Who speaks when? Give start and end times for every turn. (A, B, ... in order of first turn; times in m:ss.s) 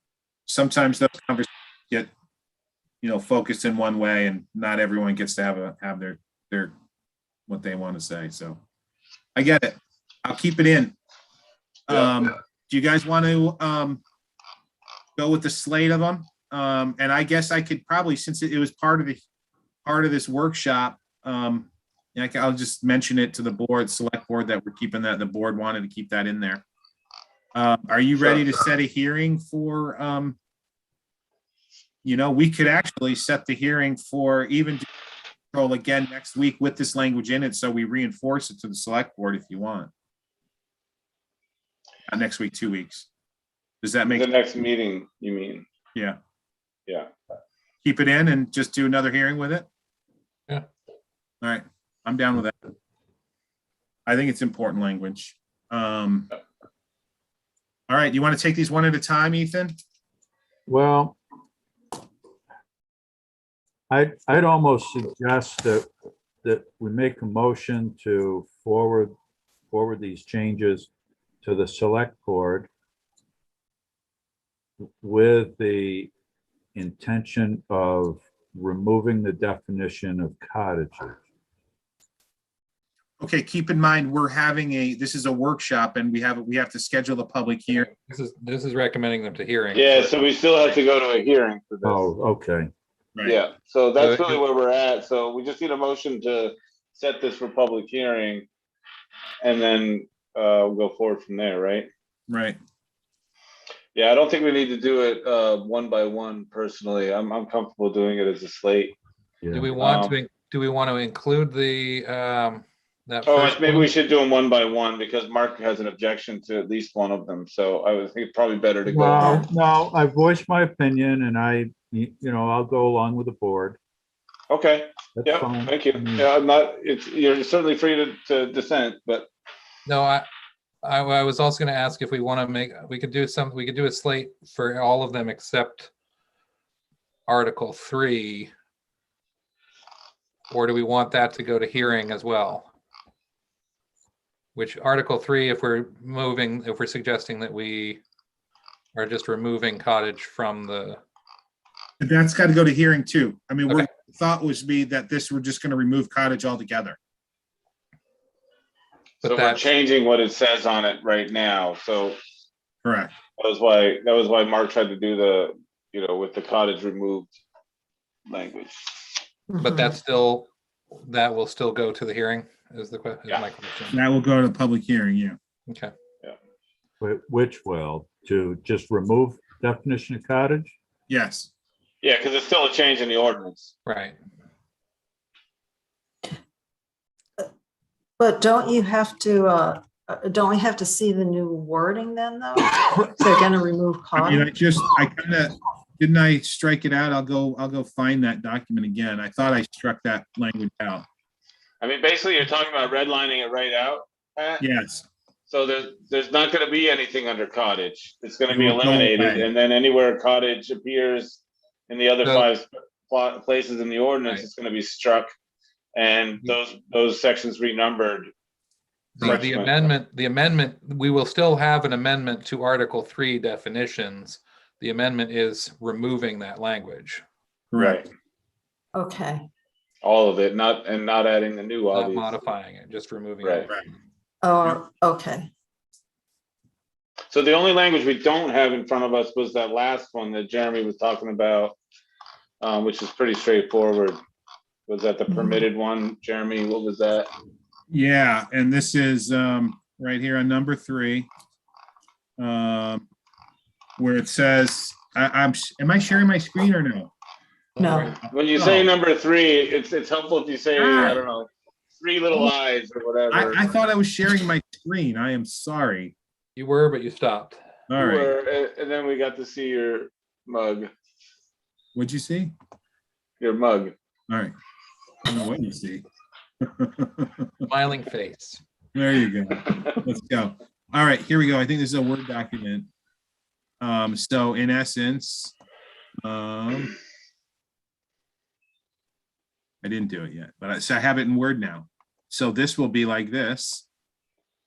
0:00.4-0:02.1 A
0:03.0-0:06.7 A
0:07.5-0:08.6 A
0:09.4-0:10.9 A
0:11.9-0:14.0 A
0:15.2-0:19.2 A
0:19.8-0:26.6 A
0:27.5-0:30.4 A
0:32.0-0:34.8 A
0:35.5-0:39.9 A
0:42.1-0:43.1 A
0:43.8-0:44.3 A
0:44.1-0:45.6 B
0:47.8-0:49.6 A
0:51.4-0:52.7 A
0:54.0-0:56.3 A
0:57.9-0:59.7 A
1:00.7-1:01.2 C
1:03.9-1:05.9 C
1:06.4-1:09.1 C
1:09.7-1:10.9 C
1:11.4-1:12.7 C
1:15.0-1:16.1 C
1:16.7-1:21.2 C
1:23.2-1:27.9 A
1:27.7-1:30.2 D
1:29.7-1:32.1 B
1:31.8-1:32.7 C
1:33.2-1:38.5 B
1:34.0-1:34.4 D
1:39.4-1:41.9 B
1:42.3-1:42.6 A
1:43.9-1:49.0 B
1:49.4-1:49.9 C
1:49.5-1:53.9 D
1:49.8-1:50.2 B
1:53.2-1:59.4 B
1:58.8-2:03.8 C
1:59.2-1:59.4 E
2:04.5-2:09.3 B
2:05.2-2:06.3 C
2:09.8-2:10.2 D
2:10.8-2:15.9 D
2:17.3-2:18.5 D
2:20.5-2:22.7 D
2:24.5-2:28.0 D
2:28.9-2:31.0 D
2:32.0-2:37.0 A
2:39.2-2:39.6 D
2:39.2-2:42.2 B
2:42.8-2:43.1 A
2:43.4-2:47.3 B
2:48.3-2:48.9 B
2:49.5-2:50.0 E
2:49.6-2:50.5 D
2:51.0-2:54.0 D
2:53.9-2:55.4 A
2:57.0-3:00.8 C
3:01.1-3:01.5 A
3:02.0-3:03.7 B
3:03.8-3:04.2 D
3:08.2-3:14.5 E
3:14.2-3:21.0 A
3:21.8-3:24.6 B
3:24.6-3:25.0 A
3:25.5-3:35.3 B
3:28.5-3:29.5 A
3:35.9-3:38.3 B
3:39.2-3:47.2 D
3:39.2-3:39.5 A
3:39.2-3:39.8 B
3:47.7-3:48.0 A
3:47.8-3:48.0 B
3:48.9-3:49.5 E
3:50.0-3:52.3 B
3:51.9-3:53.7 D
3:54.4-3:55.5 E
3:57.3-4:01.8 B
4:02.6-4:04.2 B
4:04.9-4:07.3 B
4:05.3-4:05.6 E
4:07.9-4:11.3 A
4:12.4-4:13.0 A
4:14.0-4:17.1 A
4:17.8-4:18.1 D
4:17.8-4:18.1 E
4:18.2-4:18.9 A
4:18.3-4:21.5 B
4:20.8-4:21.2 A
4:22.0-4:23.8 B
4:23.3-4:26.1 A
4:26.6-4:27.6 D
4:27.9-4:28.3 A
4:28.0-4:30.9 B
4:31.9-4:32.5 A
4:33.4-4:33.9 B
4:34.3-4:34.5 A
4:35.2-4:36.0 A
4:36.6-4:37.5 A
4:37.7-4:38.6 D
4:38.9-4:42.9 A
4:43.8-4:45.5 A
4:46.2-4:46.9 A
4:49.8-4:53.9 A